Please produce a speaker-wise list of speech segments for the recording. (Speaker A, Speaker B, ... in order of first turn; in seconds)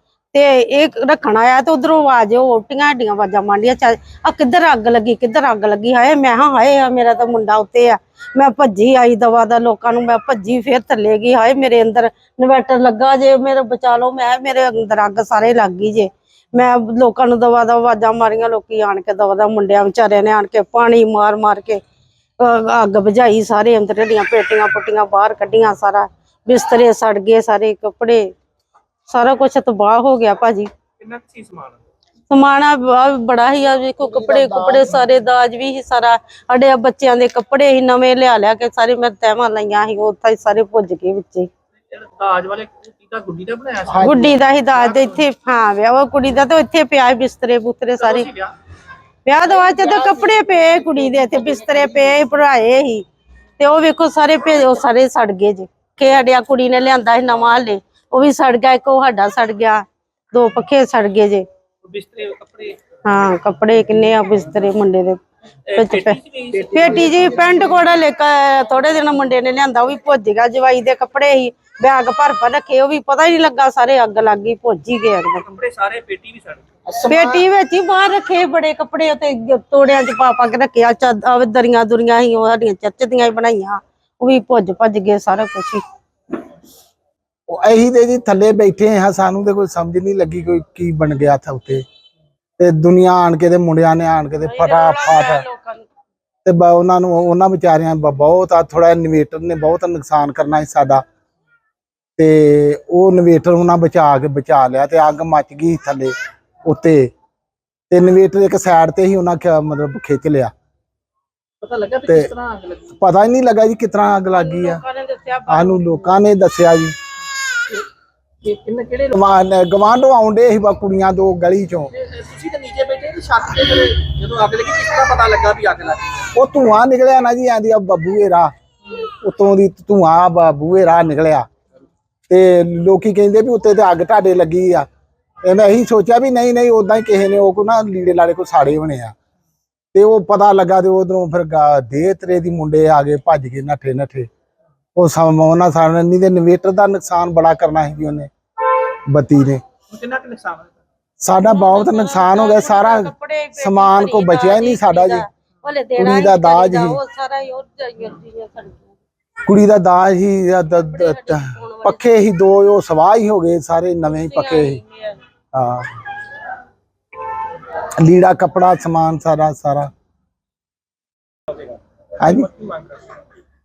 Speaker A: 0.3-21.8, 22.4-28.2, 29.1-30.7, 32.3-41.5, 44.0-48.3, 49.2-53.0, 53.6-61.5, 63.0-65.2, 65.8-75.5, 77.0-85.8, 94.4-95.9, 114.3-116.2, 151.3-159.0, 160.7-162.1, 164.1-165.2
Speaker B: 31.0-31.8, 41.9-45.2, 48.0-48.5, 49.7-50.1, 61.8-62.8, 65.7-67.9, 75.5-77.2, 111.6-112.9, 118.4-119.1, 122.0-126.2, 149.9-150.7, 172.6-173.0
Speaker C: 34.3-34.8, 43.9-44.4, 87.5-91.8, 92.6-95.5, 96.5-101.0, 102.2-106.1, 106.7-107.1, 107.9-110.5, 112.9-114.8, 115.5-117.0, 119.1-121.9, 126.3-131.5, 132.3-134.9, 135.4-139.2, 139.9-144.3, 144.9-148.3, 149.1-149.6, 151.2-155.2, 156.0-157.0, 159.5-164.8, 165.5-165.9, 168.0-169.9, 172.2-172.5